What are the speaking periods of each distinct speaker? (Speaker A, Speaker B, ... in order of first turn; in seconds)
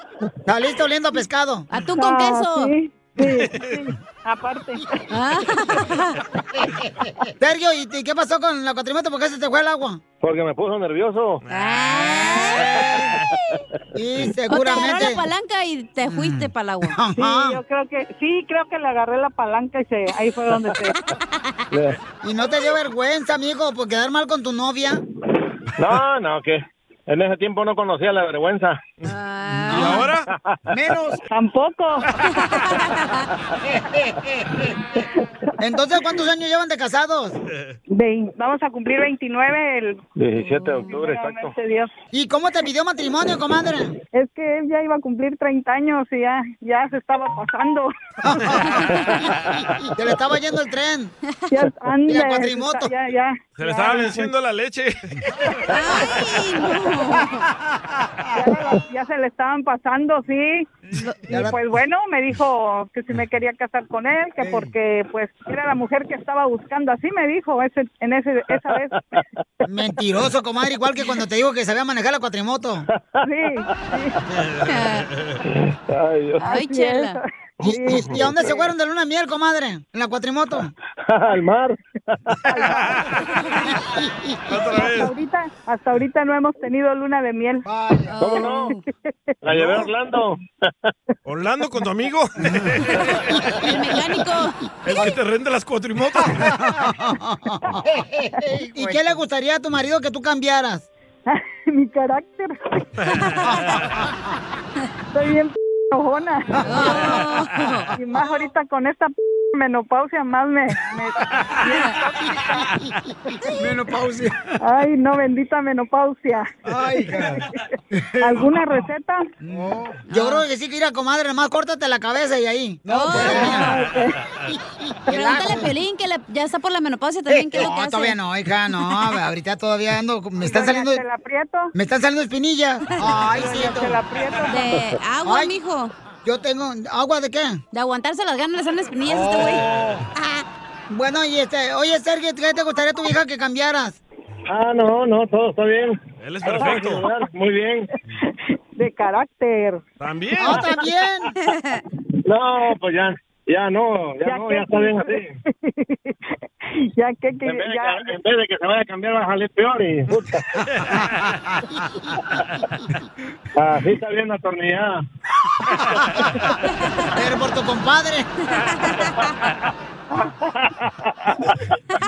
Speaker A: 0.5-1.7, 7.2-10.0, 13.9-15.2, 16.1-17.6, 22.2-25.0, 29.7-30.0, 30.7-31.2, 33.6-34.7, 35.6-37.4, 42.1-44.0, 48.2-49.0, 49.9-51.1, 52.1-52.9, 61.3-61.6, 64.4-64.7, 69.7-72.8, 77.7-80.7, 87.6-88.2, 96.2-100.8, 103.5-103.8, 106.6-107.2, 113.4-114.3, 116.7-118.6, 119.4-123.8, 125.1-125.7, 127.3-131.0, 131.7-134.0, 135.2-135.6, 136.2-137.6, 139.1-140.0, 140.9-144.0, 150.4-151.3, 167.1-168.3
Speaker B: 1.7-2.7, 5.1-6.2, 11.5-12.8, 14.5-17.0, 29.1-30.1, 32.4-33.2, 55.7-57.5, 61.0-61.3, 74.7-75.1, 76.4-77.2, 88.1-88.8, 93.6-94.6, 106.7-107.9, 111.7-111.9, 120.1-120.4, 122.9-123.7, 125.1-128.2, 134.5-135.9, 137.7-140.4, 151.5-151.8, 168.7-169.1
Speaker C: 1.9-5.1, 17.1-21.0, 31.3-32.1, 35.2-35.6, 37.9-41.9, 44.1-48.5, 51.5-54.3, 55.5-56.1, 58.3-60.7, 61.3-69.0, 73.2-74.2, 76.4-78.3, 82.5-83.0, 84.7-87.7, 88.2-89.3, 101.2-102.9, 105.1-107.2, 108.0-112.7, 114.6-116.5, 117.2-117.6, 118.2-119.3, 123.1-124.2, 130.4-131.7, 133.2-134.7, 148.1-149.8, 154.2-158.1
Speaker D: 3.2-3.7, 11.5-11.9, 12.5-13.2, 29.7-30.3, 53.6-55.2, 82.6-83.1, 84.5-85.1, 91.2-93.4, 94.8-96.6, 146.2-147.1, 150.0-150.6
Speaker E: 10.2-11.4, 21.7-22.0, 25.8-28.8, 40.2-41.5, 68.5-69.2, 73.0-73.2, 75.5-76.4, 77.6-78.3, 81.1-81.8, 88.2-88.7, 89.4-90.4, 144.5-147.9, 152.2-155.3, 157.4-160.6, 163.6-165.0, 170.2-171.5